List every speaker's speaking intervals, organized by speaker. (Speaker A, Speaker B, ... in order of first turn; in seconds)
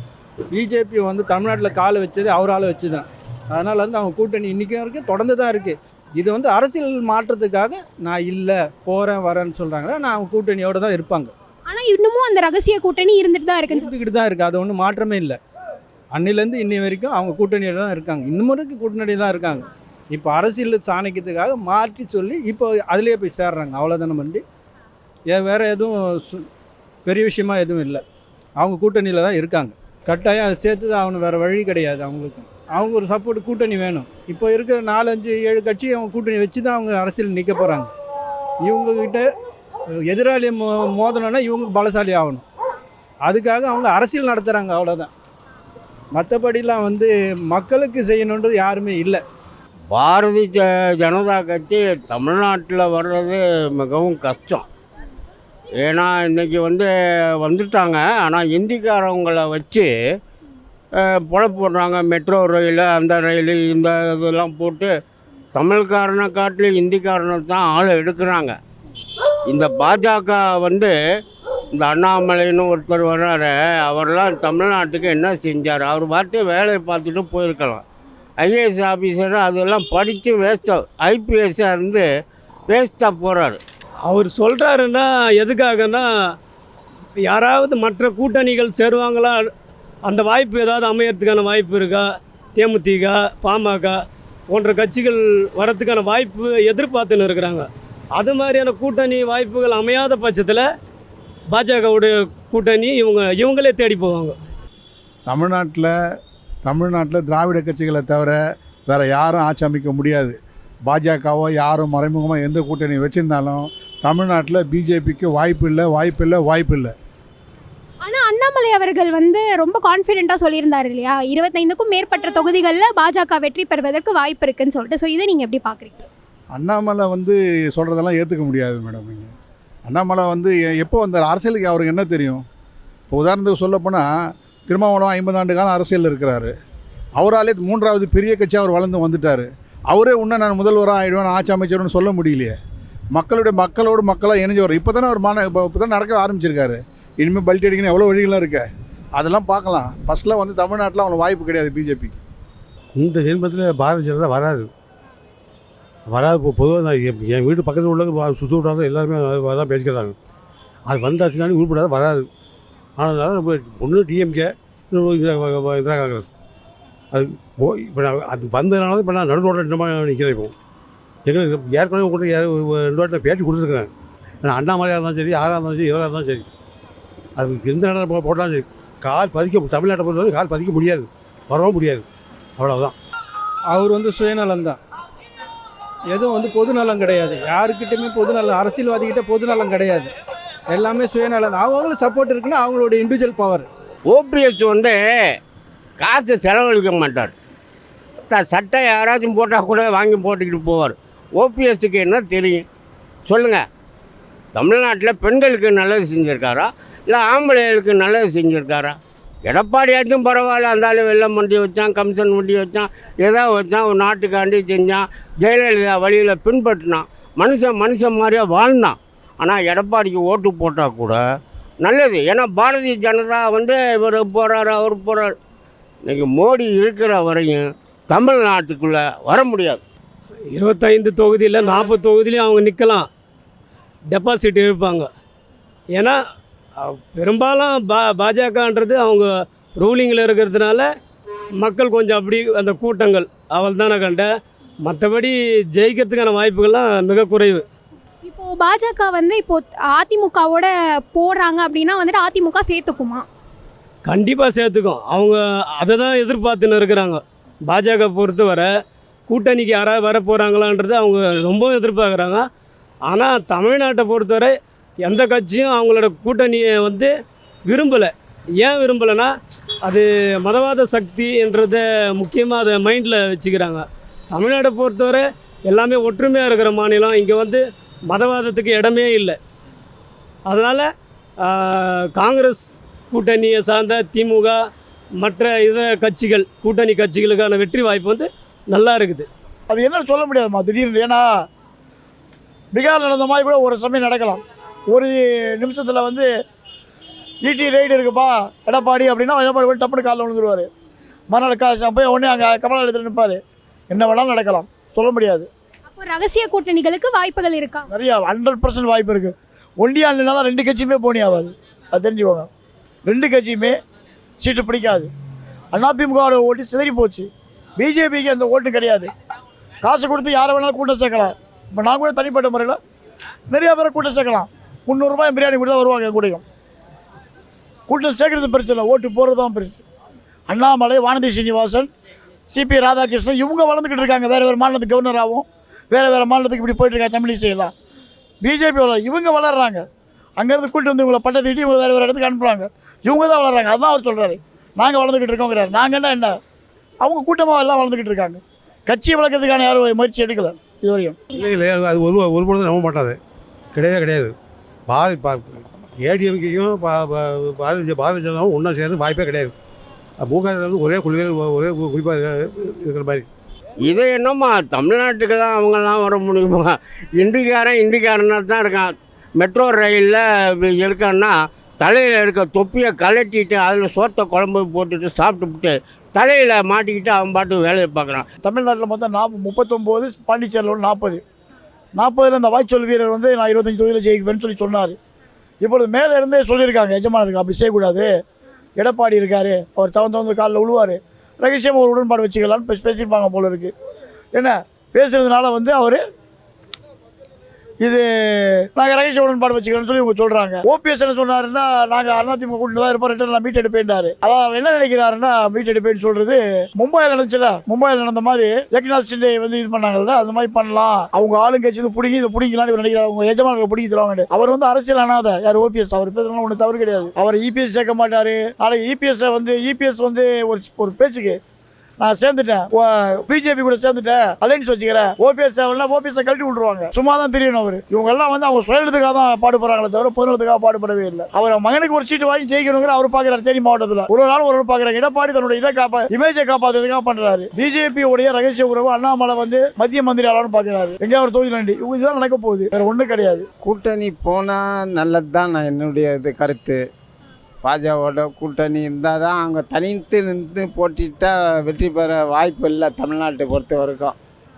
Speaker A: 0.5-11.3, 13.7-15.4, 16.1-24.4, 25.3-26.5, 27.1-28.0, 28.6-37.9, 38.6-39.3, 40.1-42.4, 43.3-45.1, 46.1-49.2, 183.7-184.8, 186.1-190.1, 190.7-193.7
Speaker B: 11.7-13.9, 118.0-126.1, 248.2-253.2, 305.9-307.9
Speaker C: 49.9-54.6, 55.8-56.9, 57.4-59.9, 61.0-64.9, 65.5-68.5, 69.5-71.0, 71.7-77.8, 78.4-82.1, 82.7-83.6, 194.1-195.0, 196.0-197.3, 198.3-202.7, 203.3-203.6, 204.6-221.2, 221.8-225.3, 226.1-229.8, 363.8-378.3
Speaker D: 84.1-86.1, 87.3-89.5, 90.1-92.1, 92.6-94.0, 94.5-97.7, 98.2-100.7, 101.5-104.4, 230.6-233.1, 234.1-235.1, 236.8-240.9, 241.6-244.3, 244.8-247.6, 254.1-258.7, 259.3-262.4, 263.1-264.5, 265.0-267.1, 267.7-269.3, 269.9-279.4, 280.5-280.9, 281.5-284.6, 285.2-289.3
Speaker E: 105.3-105.9, 106.7-110.4, 110.9-116.9, 126.5-129.3, 129.9-132.4, 133.1-134.1, 134.7-136.5, 137.2-142.6, 143.1-148.7, 149.2-152.2
Speaker F: 152.9-154.7, 156.1-160.2, 160.9-162.3, 163.0-166.3, 167.1-170.5, 171.2-173.9, 174.4-176.5, 177.4-182.1, 182.6-182.9, 351.3-353.2, 353.7-354.4, 354.9-359.5, 360.2-363.3
Speaker G: 289.7-291.3, 292.7-296.3, 297.4-300.7, 301.3-303.4, 303.9-305.5, 307.9-312.5, 313.1-313.8, 314.4-315.1, 315.7-317.3, 317.8-319.1, 319.8-322.8, 323.5-326.4, 327.9-329.8, 330.5-331.9, 332.5-337.7, 338.4-339.8, 340.4-346.4, 347.0-351.2, 378.4-381.2, 382.0-385.0, 385.6-388.1, 388.8-393.7, 394.4-396.0, 397.8-421.4, 422.0-443.4
Speaker H: 443.6-446.8, 447.6-454.2